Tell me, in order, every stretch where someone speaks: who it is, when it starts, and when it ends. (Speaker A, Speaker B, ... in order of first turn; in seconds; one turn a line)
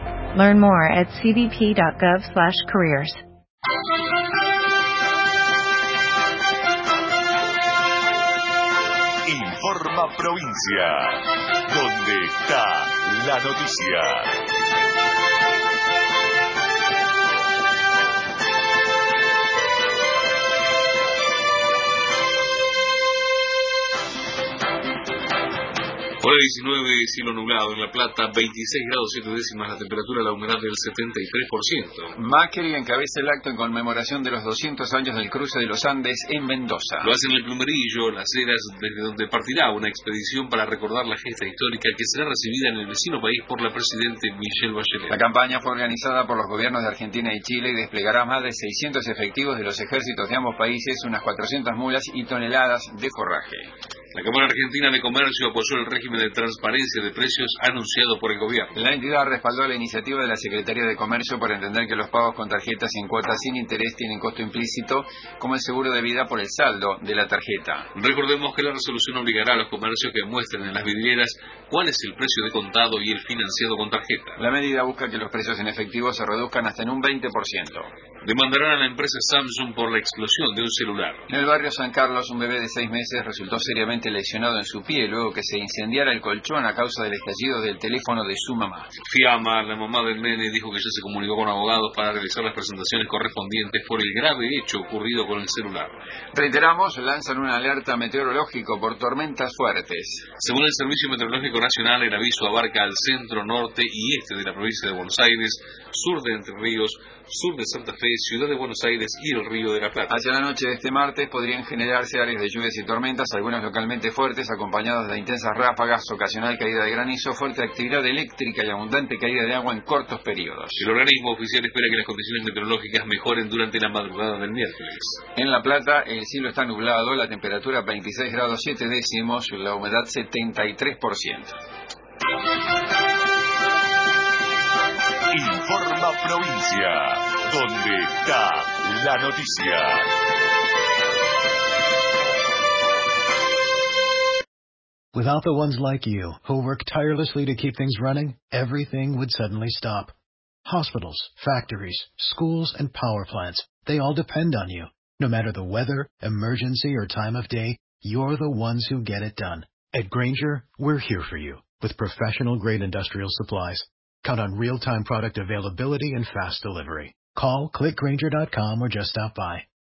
Speaker A: 0.3-3.2
Speaker B: 9.2-14.4
Speaker C: 26.2-32.1
Speaker D: 32.2-37.1
Speaker C: 37.0-45.2
Speaker D: 45.1-53.7
Speaker C: 54.1-58.8
Speaker D: 58.8-67.9
Speaker C: 68.0-74.4
Speaker D: 74.4-77.9
Speaker C: 78.2-81.3
Speaker D: 81.3-88.9
Speaker C: 89.0-96.0
Speaker D: 96.3-100.3
Speaker C: 100.4-110.2
Speaker D: 110.1-120.8
Speaker C: 120.8-125.2
Speaker D: 125.3-131.6
Speaker B: 135.3-140.1
Speaker E: 145.1-169.7